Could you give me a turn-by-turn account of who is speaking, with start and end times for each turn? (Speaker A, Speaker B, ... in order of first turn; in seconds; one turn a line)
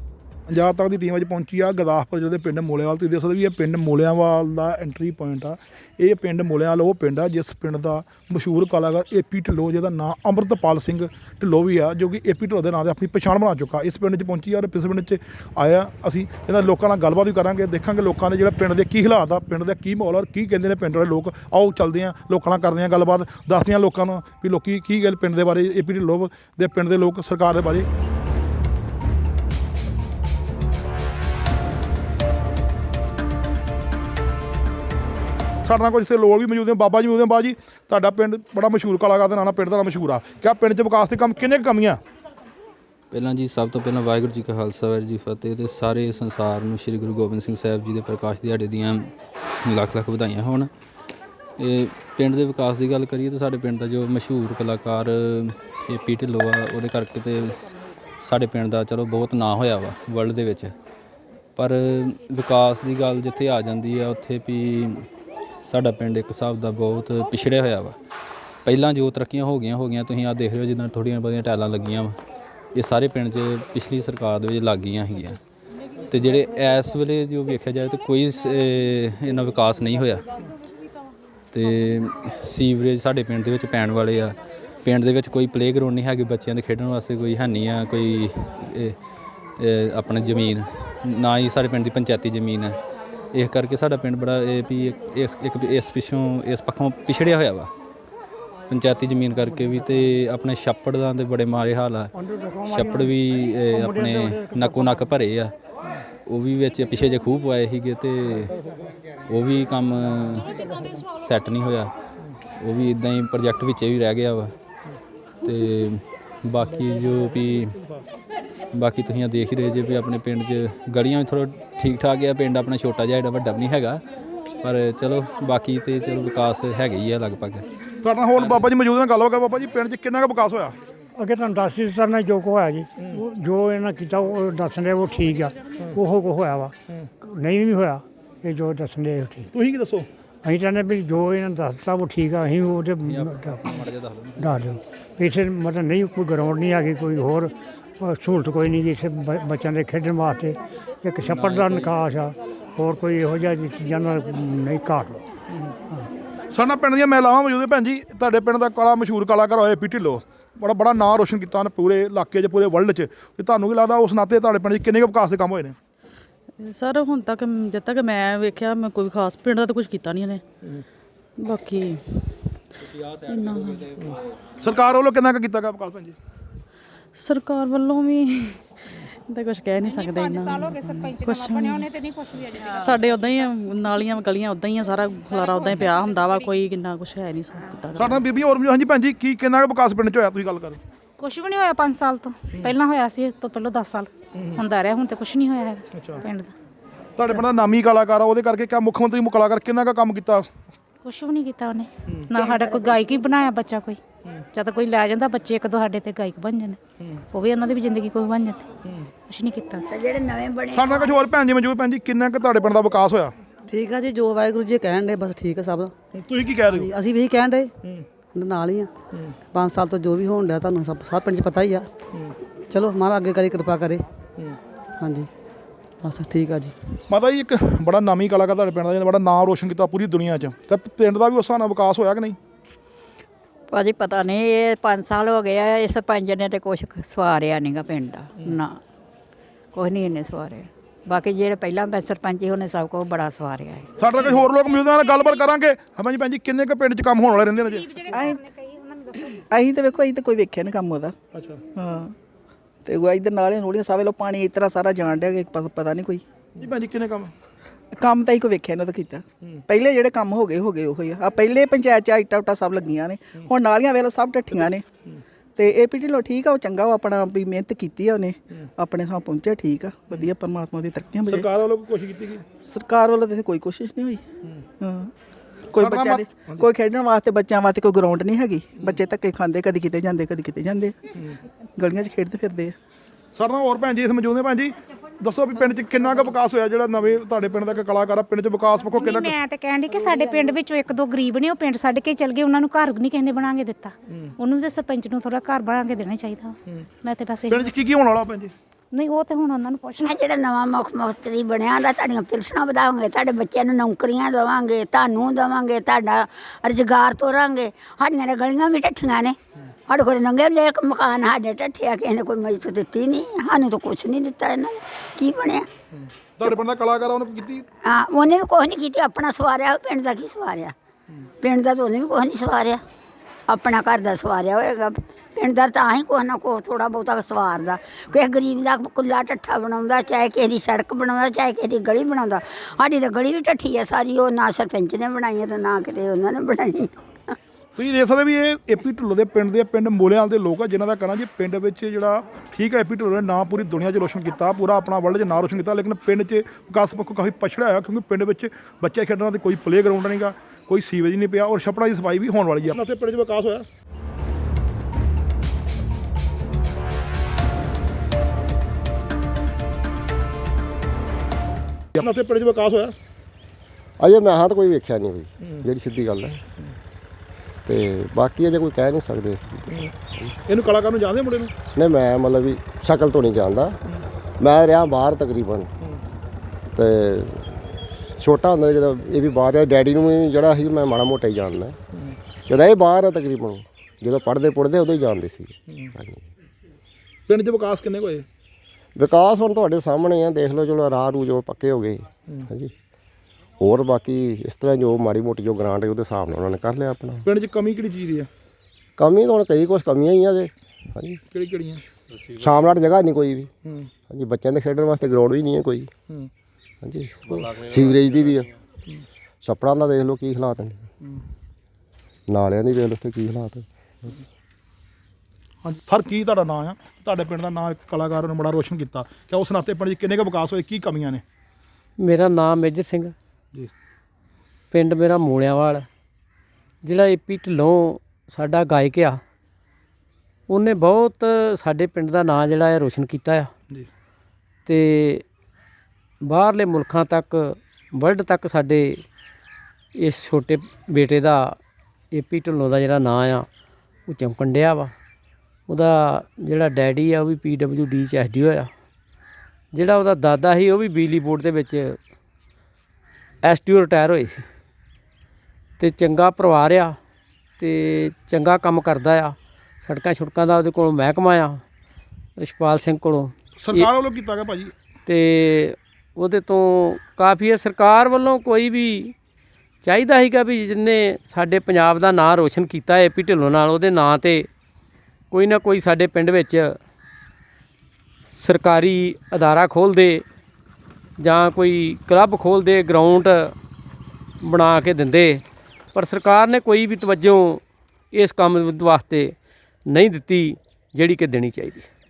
Speaker A: 0.5-27.9
Speaker A: 35.6-42.0
Speaker B: 43.1-49.1
Speaker B: 49.6-50.7
Speaker B: 51.6-57.6
Speaker B: 58.2-60.7
Speaker B: 61.5-65.0
Speaker B: 65.6-68.0
Speaker B: 68.6-72.2
Speaker B: 72.7-75.4
Speaker B: 76.1-80.2
Speaker B: 81.5-89.0
Speaker B: 89.6-92.8
Speaker B: 93.3-97.7
Speaker B: 98.7-102.1
Speaker C: 102.2-103.0
Speaker B: 102.7-105.5
Speaker C: 103.7-104.8
Speaker B: 106.2-108.6
Speaker B: 109.3-111.9
Speaker B: 112.6-114.5
Speaker B: 115.4-117.8
Speaker B: 118.7-124.0
Speaker B: 124.6-127.6
Speaker A: 128.0-130.7
Speaker B: 128.4-128.7
Speaker C: 131.2-139.5
Speaker A: 139.5-140.1
Speaker C: 140.4-143.7
Speaker B: 143.0-144.6
Speaker C: 144.4-155.2
Speaker B: 151.2-152.1
Speaker A: 156.5-165.8
Speaker D: 166.6-170.4
Speaker D: 171.4-172.4
Speaker B: 172.8-174.1
Speaker D: 173.3-173.9
Speaker A: 174.0-176.2
Speaker D: 177.2-178.7
Speaker D: 179.3-182.0
Speaker D: 182.5-188.2
Speaker A: 187.9-190.8
Speaker E: 191.2-196.5
Speaker A: 192.5-192.8
Speaker A: 194.3-194.6
Speaker A: 195.9-196.2
Speaker A: 197.2-200.5
Speaker E: 201.0-204.0
Speaker A: 202.1-202.6
Speaker F: 202.6-203.0
Speaker E: 204.5-206.8
Speaker E: 207.3-208.6
Speaker A: 208.8-209.1
Speaker E: 209.2-209.8
Speaker F: 209.9-211.2
Speaker A: 210.7-213.3
Speaker G: 213.7-215.9
Speaker A: 216.1-216.9
Speaker G: 216.7-217.7
Speaker G: 218.3-218.9
Speaker G: 219.5-221.9
Speaker G: 222.7-224.1
Speaker G: 225.0-225.3
Speaker G: 226.0-226.7
Speaker A: 227.1-232.4
Speaker H: 233.7-238.7
Speaker H: 239.8-243.8
Speaker A: 244.0-248.1
Speaker I: 248.1-248.4
Speaker I: 249.5-251.1
Speaker A: 251.3-251.6
Speaker I: 251.8-252.1
Speaker I: 252.8-256.2
Speaker A: 256.6-257.3
Speaker I: 258.0-264.8
Speaker I: 265.6-271.5
Speaker A: 271.2-272.5
Speaker I: 272.6-274.2
Speaker I: 274.8-275.1
Speaker I: 275.7-280.9
Speaker A: 275.8-276.7
Speaker I: 281.8-282.7
Speaker A: 283.3-289.4
Speaker E: 288.9-297.7
Speaker A: 297.5-298.5
Speaker E: 298.9-300.1
Speaker F: 300.0-309.4
Speaker F: 309.9-315.6
Speaker A: 315.9-317.6
Speaker F: 317.8-320.7
Speaker F: 321.4-322.8
Speaker F: 323.5-336.9
Speaker A: 337.8-353.6
Speaker A: 361.9-362.9
Speaker J: 364.0-366.4
Speaker J: 367.6-370.3
Speaker A: 370.4-371.5
Speaker J: 371.7-373.8
Speaker J: 374.4-375.7
Speaker J: 376.7-377.7
Speaker J: 378.2-381.8
Speaker J: 382.5-386.2
Speaker A: 387.3-388.2
Speaker J: 388.9-392.7
Speaker J: 393.6-397.2
Speaker A: 397.2-398.3
Speaker J: 399.0-401.2
Speaker A: 401.3-401.8
Speaker J: 402.3-403.5
Speaker J: 404.1-405.9
Speaker J: 406.8-408.5
Speaker J: 409.4-410.8
Speaker J: 412.3-414.2
Speaker A: 415.6-421.2
Speaker K: 422.0-423.1
Speaker K: 424.7-425.9
Speaker K: 426.8-429.2
Speaker K: 430.5-433.5
Speaker K: 434.6-435.2
Speaker K: 436.2-439.0
Speaker K: 439.9-441.6
Speaker K: 442.1-443.5
Speaker K: 444.1-444.9
Speaker K: 445.7-448.7
Speaker K: 449.7-452.0
Speaker K: 453.4-454.4
Speaker K: 455.8-457.0
Speaker K: 457.6-461.6
Speaker K: 462.4-463.9
Speaker A: 463.6-464.7
Speaker K: 465.1-469.1
Speaker K: 469.8-474.5
Speaker K: 475.3-476.7
Speaker K: 478.3-480.2
Speaker K: 481.2-483.5
Speaker K: 484.4-485.4
Speaker K: 485.9-489.4
Speaker K: 489.9-491.9